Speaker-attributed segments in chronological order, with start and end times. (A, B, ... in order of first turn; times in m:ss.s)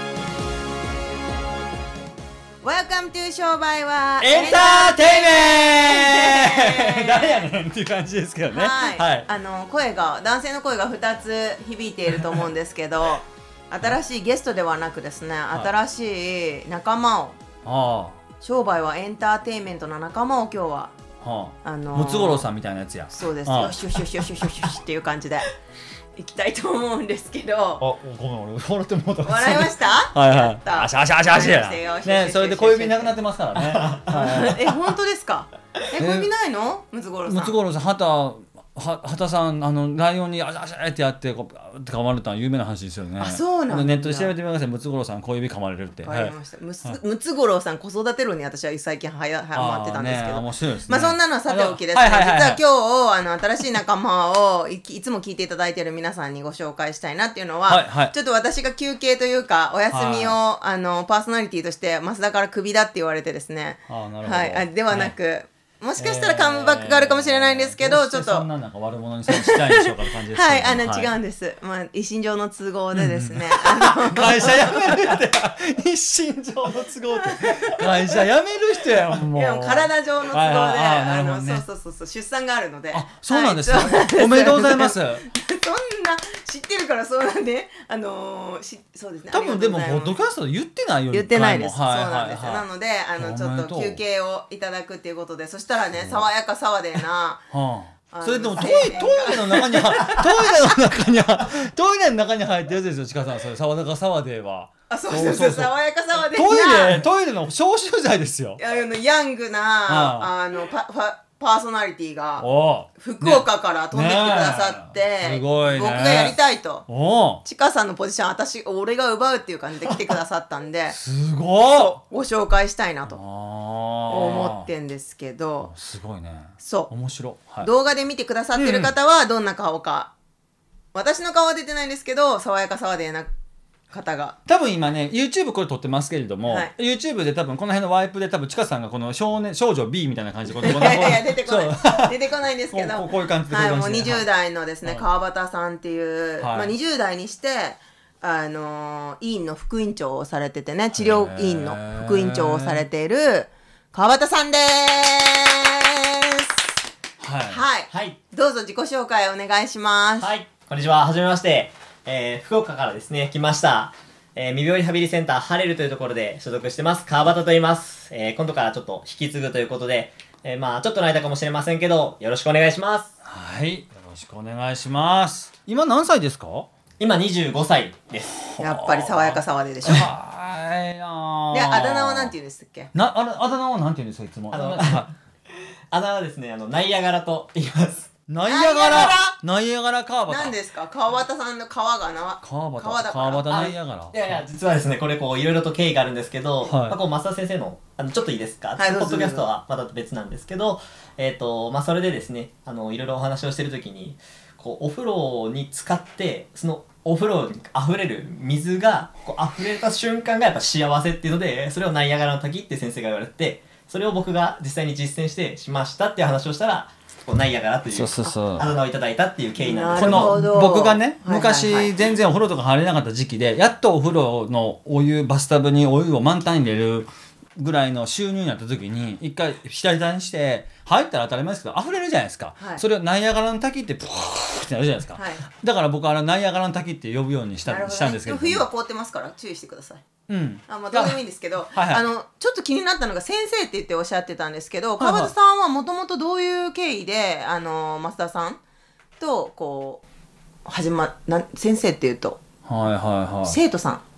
0:02.6-0:07.5 A
0:04.2-0:09.3 B
0:08.5-0:17.4 A
0:17.6-0:18.2 B
0:18.4-0:21.0 A
0:21.2-0:24.2 B
0:21.6-0:22.5 A
0:23.1-0:25.5 A
0:26.2-0:27.8 A
0:27.8-0:34.7 B
0:29.2-0:33.2 A
0:33.6-0:34.4 C
0:34.1-0:37.6 A
0:36.0-0:36.3 B
0:37.2-0:47.0 B
0:43.2-0:44.3 A
0:46.0-1:08.5 A
0:49.5-0:52.6 B
0:57.7-0:58.1 B
0:59.9-1:00.4 B
1:03.9-1:05.1 B
1:06.0-1:11.1 B
1:09.3-1:15.1 A
1:12.9-1:21.6 B
1:17.2-1:18.2 A
1:19.3-1:30.2 A
1:22.9-1:25.3 B
1:29.3-1:34.0 B
1:31.1-1:37.4 A
1:36.0-1:36.3 B
1:37.5-1:48.6 B
1:38.1-1:40.8 A
1:44.9-1:47.1 A
1:48.6-1:56.9 A
1:49.9-1:50.3 B
1:52.4-1:56.4 B
1:56.9-1:57.4 B
1:57.4-2:01.0 A
2:00.9-2:02.0 B
2:01.7-2:03.2 A
2:03.1-2:04.7 B
2:04.1-2:05.7 A
2:05.6-2:07.7 B
2:06.6-2:06.9 A
2:07.6-2:10.1 A
2:08.6-2:08.9 B
2:10.9-2:13.3 A
2:13.9-2:14.4 A
2:14.5-2:24.3 B
2:16.5-2:16.7 A
2:20.6-2:36.6 A
2:26.4-2:26.7 B
2:30.9-2:32.8 B
2:37.2-2:37.6 B
2:37.5-2:40.3 A
2:37.9-2:38.2 C
2:40.2-2:53.1 C
2:53.2-2:56.7 B
2:57.0-2:58.4 C
2:58.4-3:02.3 B
2:58.6-3:00.1 A
3:01.5-3:02.9 A
3:02.9-3:05.1 B
3:04.5-3:05.1 C
3:05.9-3:08.1 C
3:08.3-3:10.6 B
3:08.4-3:09.4 A
3:10.3-3:13.5 A
3:12.4-3:14.4 B
3:13.5-3:40.4 C
3:16.6-3:17.0 B
3:18.8-3:19.5 A
3:37.9-3:38.8 B
3:39.6-3:41.9 A
3:40.0-3:58.7 B
3:52.6-3:52.8 A
3:55.2-3:55.4 A
3:57.7-4:00.0 A
4:00.3-4:01.2 B
4:00.7-4:08.6 A
4:01.7-4:02.0 B
4:05.0-4:05.3 B
4:09.2-4:10.0 A
4:10.6-4:12.4 A
4:12.7-4:13.6 B
4:13.4-4:14.0 A